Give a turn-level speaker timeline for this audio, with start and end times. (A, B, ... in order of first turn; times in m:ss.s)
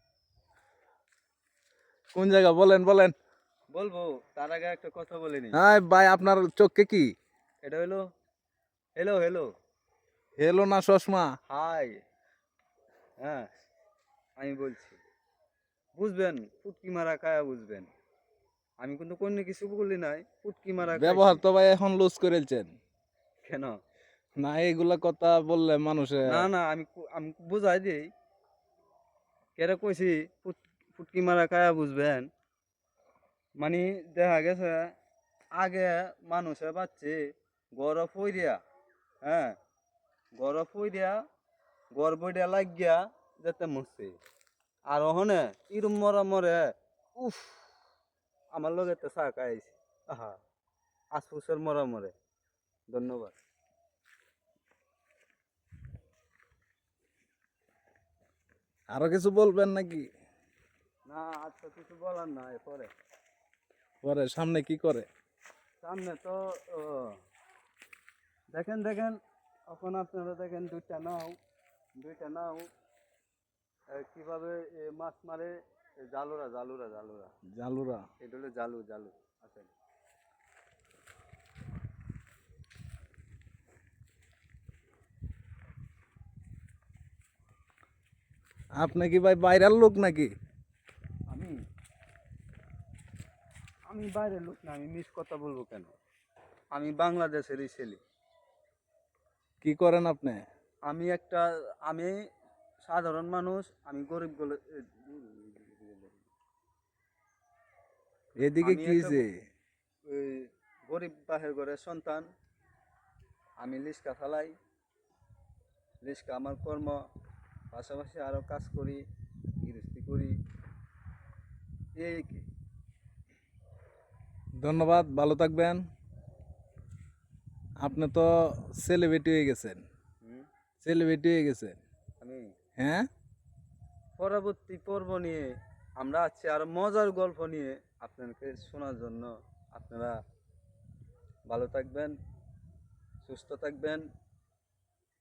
0:02.1-0:03.1 A
0:03.7-0:05.6 B
0:05.5-0:07.1 A
0:07.6-0:08.0 B
0:09.0-0:09.5 B
0:10.4-0:11.3 A
0:11.5-0:11.9 B
0:13.2-0:13.5 B
0:14.4-0:15.0 B
0:16.0-0:17.9 B
0:18.8-0:21.4 B
0:20.9-0:22.7 A
0:23.4-0:23.8 B
0:24.4-0:26.5 A
0:26.3-0:28.0 B
0:29.6-0:32.3 B
0:33.6-0:34.9 B
0:35.6-0:37.2 B
0:37.8-0:38.6 B
0:39.2-0:39.6 B
0:40.4-0:41.2 B
0:42.0-0:44.2 B
0:44.9-0:46.6 B
0:47.2-0:47.6 B
0:48.5-0:50.4 B
0:51.2-0:52.1 B
0:52.9-0:53.3 B
0:58.9-1:00.1 A
1:01.1-1:02.9 B
1:04.0-1:05.1 A
1:05.8-1:07.2 B
1:08.5-1:11.4 B
1:12.0-1:12.7 B
1:13.9-1:17.3 B
1:17.5-1:18.0 A
1:18.2-1:19.7 B
1:28.8-1:30.3 A
1:31.3-1:31.6 B
1:33.9-1:35.9 B
1:36.7-1:38.0 B
1:39.6-1:40.4 A
1:40.9-1:42.1 B
1:42.9-1:46.2 B
1:48.4-1:49.3 A
1:48.6-1:49.2 B
1:50.1-1:52.3 B
1:53.6-1:54.5 B
1:56.0-1:57.0 B
1:57.7-1:59.0 B
1:59.6-2:00.4 B
2:02.0-2:02.5 B
2:04.6-2:05.8 A
2:07.8-2:09.8 A
2:10.8-2:11.8 A
2:12.2-2:12.5 B
2:12.8-2:13.1 A
2:14.2-2:15.5 B
2:16.0-2:20.1 B
2:21.5-2:22.1 B
2:23.2-2:24.0 B